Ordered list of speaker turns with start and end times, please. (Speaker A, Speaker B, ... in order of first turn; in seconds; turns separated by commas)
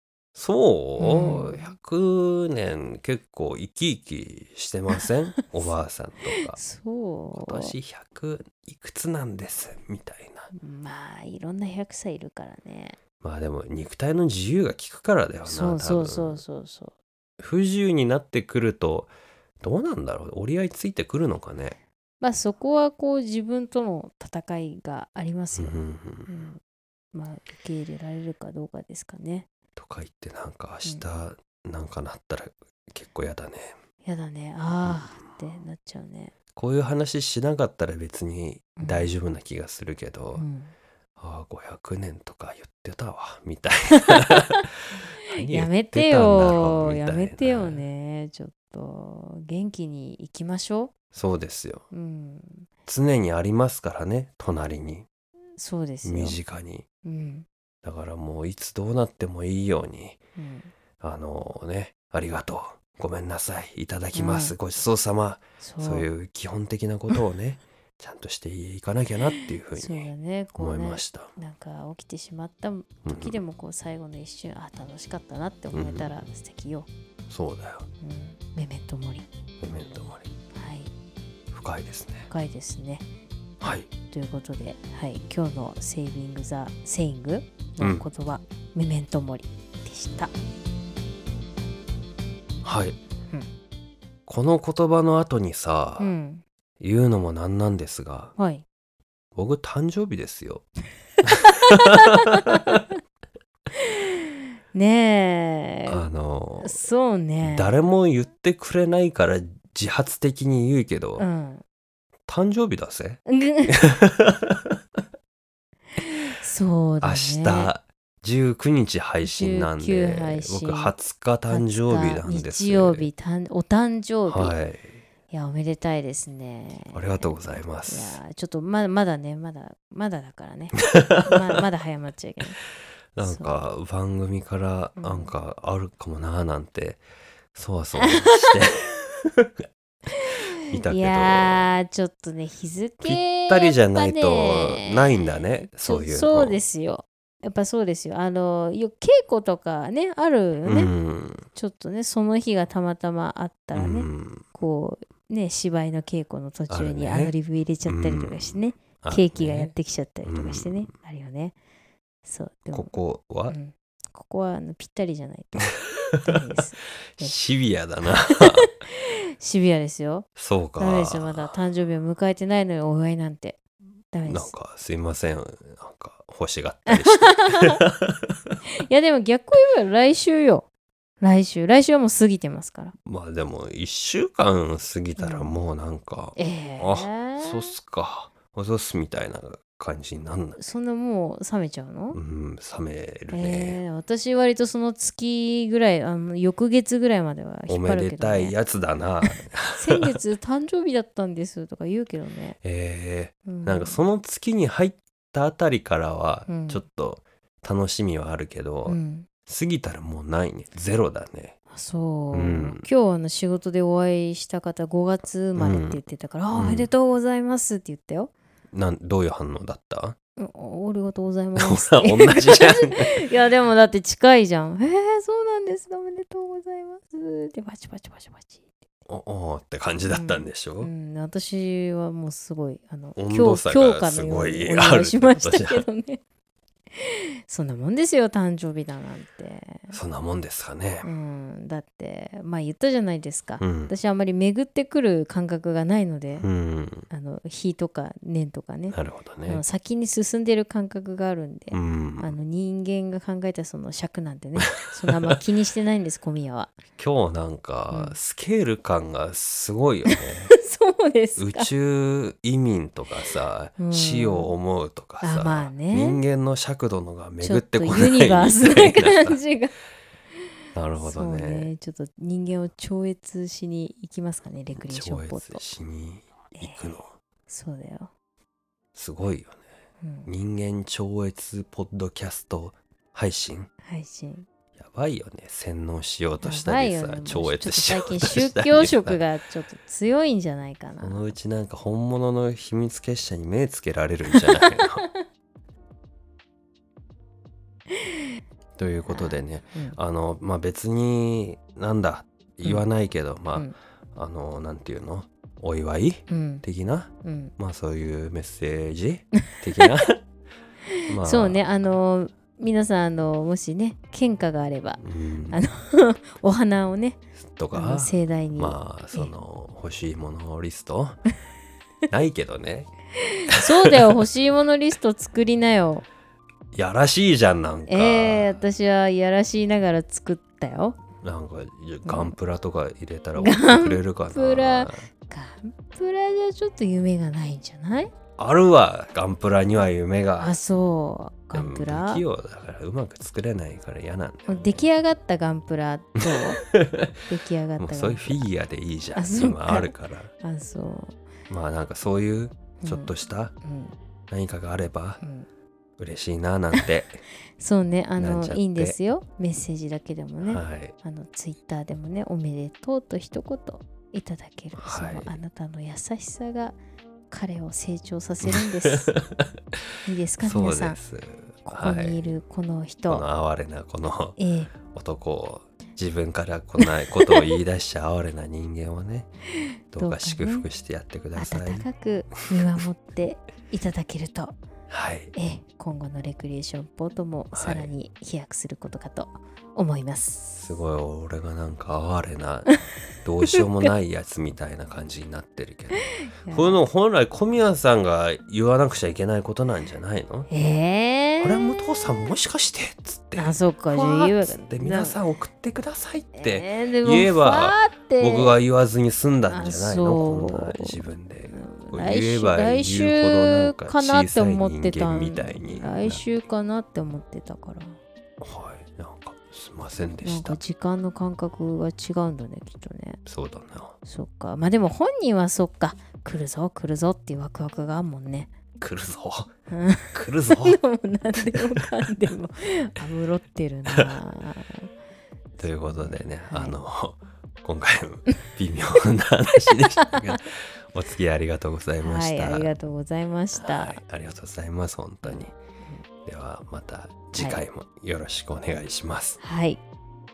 Speaker A: 0.3-6.6, Speaker B: 1.0-1.7, Speaker B: 6.5-7.7, Speaker A: 7.3-10.5, Speaker B: 10.5-13.0, Speaker A: 13.2-16.4, Speaker B: 15.4-16.9, Speaker A: 17.4-21.8, Speaker B: 22.2-26.6, Speaker A: 25.6-26.3, Speaker B: 27.1-29.5, Speaker A: 29.8-33.7, Speaker B: 34.0-36.3, Speaker A: 34.8-35.1, Speaker A: 36.5-40.4, Speaker B: 38.8-39.1, Speaker B: 40.4-40.7, Speaker A: 41.2-47.8, Speaker B: 45.4-50.9, Speaker A: 51.1-51.8, Speaker B: 51.9-52.7, Speaker A: 52.9-55.1, Speaker B: 55.6-56.4, Speaker A: 56.0-56.8, Speaker B: 57.0-57.5, Speaker A: 57.8-60.2, Speaker B: 60.4-60.7, Speaker A: 61.0-71.3, Speaker B: 64.1-64.5, Speaker B: 65.6-66.1, Speaker B: 69.7-76.9, Speaker A: 73.0-73.4, Speaker A: 75.7-76.1, Speaker A: 77.3-77.9, Speaker B: 78.0-79.3, Speaker A: 79.6-80.3, Speaker B: 80.5-80.9, Speaker A: 81.5-82.3, Speaker B: 82.3-83.0, Speaker A: 83.6-83.9, Speaker B: 84.1-90.3, Speaker A: 87.8-88.0, Speaker A: 92.6-93.0, Speaker A: 94.3-96.1, Speaker B: 96.0-96.4, Speaker A: 96.8-98.3, Speaker B: 98.3-98.6, Speaker A: 99.3-100.7, Speaker A: 101.2-102.8, Speaker B: 101.3-102.9, Speaker B: 103.7-106.0, Speaker A: 105.9-106.8, Speaker B: 106.6-107.8, Speaker A: 107.4-111.2, Speaker B: 111.2-111.6, Speaker A: 112.3-114.8, Speaker B: 113.3-113.8, Speaker B: 116.0-117.7, Speaker A: 117.0-123.1, Speaker B: 119.2-120.9, Speaker B: 121.5-124.5, Speaker A: 124.3-124.9, Speaker B: 125.3-132.6, Speaker A: 126.9-128.2, Speaker A: 130.9-131.4, Speaker A: 133.1-137.0, Speaker B: 133.2-133.6, Speaker B: 135.0-135.3, Speaker A: 137.5-139.6, Speaker B: 138.0-138.7, Speaker B: 140.1-150.9, Speaker A: 140.7-141.7, Speaker A: 143.0-146.6, Speaker A: 150.6-151.5, Speaker B: 151.5-161.5, Speaker A: 153.7-154.4, Speaker A: 156.7-157.3, Speaker A: 157.8-159.7, Speaker A: 160.2-160.9, Speaker B: 162.2-162.9, Speaker A: 162.7-163.5, Speaker B: 163.5-167.3, Speaker A: 166.1-166.4, Speaker A: 167.2-168.7, Speaker B: 168.0-170.3, Speaker A: 170.4-171.5, Speaker B: 170.8-173.6, Speaker B: 174.1-174.5, Speaker A: 174.2-178.6, Speaker B: 176.9-177.8, Speaker B: 178.8-180.7, Speaker B: 181.2-182.9, Speaker A: 183.0-190.6, Speaker B: 185.2-185.6, Speaker B: 186.3-187.7, Speaker B: 190.6-192.2, Speaker A: 192.1-193.8, Speaker B: 193.3-198.6, Speaker A: 197.7-200.2, Speaker B: 199.2-202.6, Speaker A: 202.6-211.6, Speaker B: 203.4-204.0, Speaker B: 206.5-206.8, Speaker B: 208.8-209.3, Speaker B: 211.7-218.3, Speaker A: 212.3-212.9, Speaker A: 215.6-216.0, Speaker A: 216.5-216.9, Speaker A: 218.7-220.2, Speaker B: 220.4-228.6, Speaker A: 221.6-223.2, Speaker A: 229.1-230.9, Speaker B: 230.1-236.2, Speaker A: 233.2-235.8, Speaker B: 236.9-240.0, Speaker A: 239.9-241.1, Speaker B: 241.0-246.5, Speaker A: 243.6-243.9, Speaker A: 246.4-247.1, Speaker B: 247.1-256.7, Speaker A: 248.9-249.6, Speaker A: 251.7-252.3, Speaker A: 254.7-255.3, Speaker A: 257.0-260.5, Speaker B: 257.9-258.2, Speaker B: 260.1-261.7, Speaker A: 261.4-269.4, Speaker B: 263.8-264.5, Speaker B: 265.2-266.2, Speaker B: 267.4-269.7, Speaker A: 270.7-271.7, Speaker B: 271.0-275.6, Speaker A: 274.7-277.1, Speaker B: 276.5-277.0, Speaker B: 277.5-278.1, Speaker A: 278.9-279.6, Speaker B: 280.0-280.3, Speaker A: 280.3-283.7, Speaker B: 283.8-284.5, Speaker A: 284.8-289.2, Speaker B: 286.4-291.2, Speaker A: 291.0-295.0, Speaker B: 294.3-295.1, Speaker A: 298.8-310.2, Speaker B: 299.1-300.0, Speaker B: 306.3-306.6, Speaker B: 307.2-307.5, Speaker A: 311.1-311.6, Speaker B: 311.2-317.2, Speaker A: 315.0-315.6, Speaker A: 317.4-321.2, Speaker B: 317.7-319.3, Speaker A: 322.1-322.9, Speaker B: 323.2-326.0, Speaker A: 323.5-324.2, Speaker A: 326.7-328.5, Speaker B: 327.9-331.0, Speaker A: 331.2-335.1, Speaker B: 332.0-332.3, Speaker B: 333.4-338.1, Speaker A: 338.4-340.5, Speaker B: 340.4-342.2, Speaker A: 341.5-344.9, Speaker B: 344.4-346.6, Speaker A: 346.2-347.2, Speaker B: 347.2-348.4, Speaker A: 347.8-350.3, Speaker B: 349.1-351.2, Speaker A: 351.5-353.5, Speaker B: 352.8-353.9, Speaker A: 354.3-355.2, Speaker B: 355.2-355.5, Speaker A: 356.0-357.2, Speaker B: 357.6-366.8, Speaker A: 358.2-359.0, Speaker A: 360.4-360.9, Speaker A: 364.7-365.4, Speaker B: 367.3-369.2, Speaker A: 368.4-369.7, Speaker B: 370.0-371.0, Speaker A: 370.4-372.3, Speaker B: 371.6-373.2, Speaker A: 373.1-379.3, Speaker B: 374.4-374.7, Speaker B: 376.8-377.5, Speaker B: 379.5-380.7, Speaker A: 379.9-381.9, Speaker B: 381.3-384.5, Speaker A: 384.9-385.3, Speaker B: 385.3-390.6, Speaker A: 387.5-387.9, Speaker A: 390.6-400.5, Speaker B: 393.5-393.9, Speaker B: 396.4-396.8, Speaker B: 400.5-401.8, Speaker A: 401.4-416.2, Speaker B: 403.3-405.2, Speaker B: 406.4-408.5, Speaker B: 409.5-411.0, Speaker B: 411.5-418.0, Speaker A: 418.4-420.6, Speaker B: 420.2-423.2, Speaker A: 423.2-423.9, Speaker B: 424.0-428.5, Speaker A: 428.8-429.5, Speaker B: 429.7-434.9, Speaker A: 430.1-430.8, Speaker A: 431.5-431.9, Speaker A: 435.6-442.7, Speaker B: 436.0-436.8, Speaker B: 439.8-440.4, Speaker B: 442.0-444.0, Speaker A: 443.5-445.5, Speaker B: 445.2-446.0, Speaker A: 446.2-449.4, Speaker B: 447.4-447.6, Speaker B: 449.4-449.8